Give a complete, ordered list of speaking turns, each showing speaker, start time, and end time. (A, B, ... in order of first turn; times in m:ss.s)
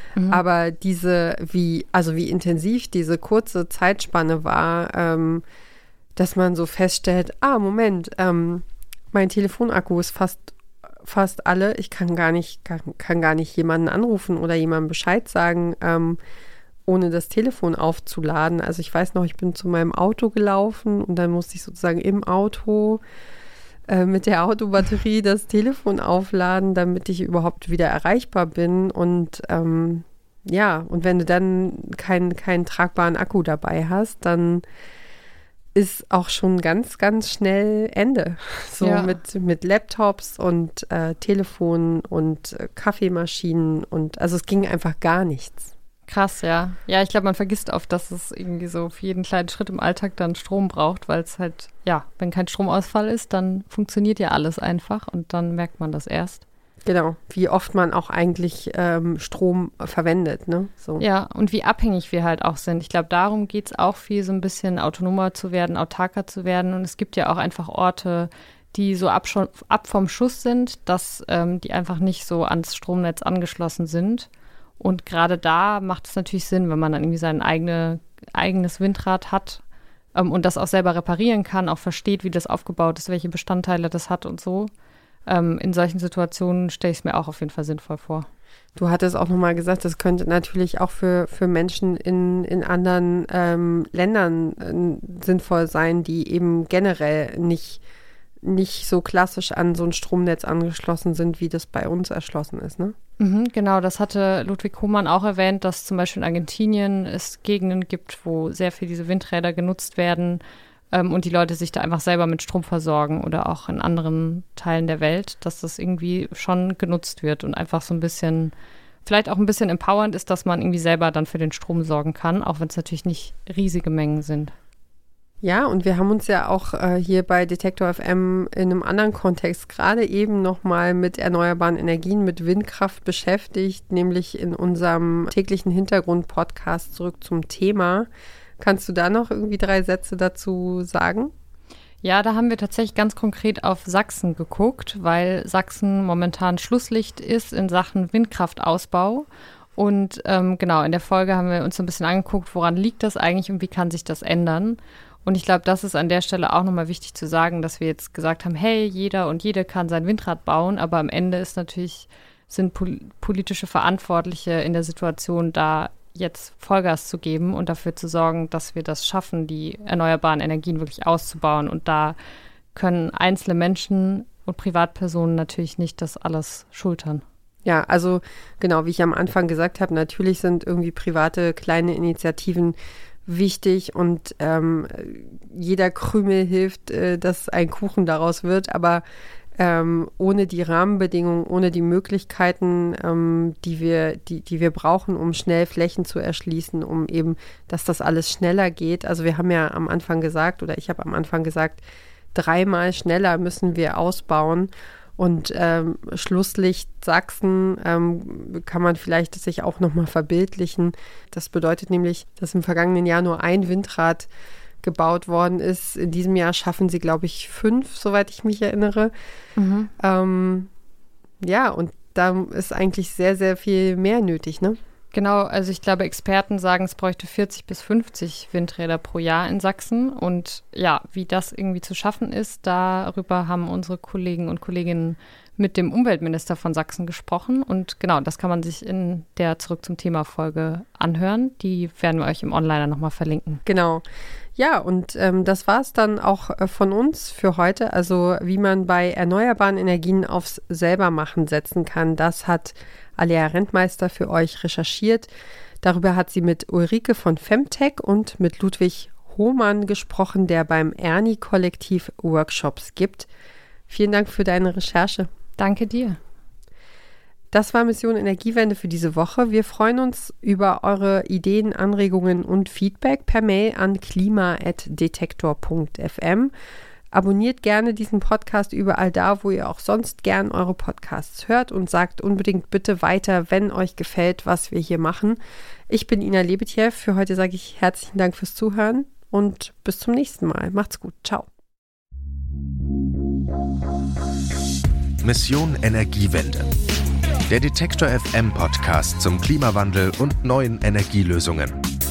0:00.2-0:00.4 A
0:00.3-0:05.4 B
0:06.2-0:10.5 B
0:11.0-0:16.2 B
0:16.9-0:23.0 B
0:23.9-0:34.6 B
0:35.7-0:45.7 B
0:38.8-0:39.2 A
0:46.1-0:56.4 A
0:56.8-1:01.0 B
1:01.0-1:14.3 A
1:14.8-1:19.6 A
1:20.1-1:24.7 A
1:25.3-1:28.3 A
1:28.8-1:37.8 B
1:38.4-1:42.9 B
1:43.2-1:50.4 A
1:50.9-1:58.5 A
1:59.0-2:04.5 A
2:05.4-2:18.1 B
2:18.6-2:21.3 B
2:22.0-2:29.2 A
2:29.8-2:52.2 A
2:52.7-2:57.2 A
2:57.6-3:09.0 B
3:09.6-3:21.8 B
3:22.3-3:34.3 B
3:34.8-3:39.1 B
3:39.6-3:39.9 A
3:40.0-3:40.7 B
3:41.4-3:44.8 B
3:45.1-4:03.6 A
4:03.6-4:04.0 B
4:04.6-4:15.3 B
4:15.8-4:23.3 B
4:23.9-4:25.3 B
4:25.6-4:26.2 A
4:27.5-4:36.5 B
4:37.1-4:51.5 B
4:55.2-4:56.7 C
4:57.5-5:01.8 C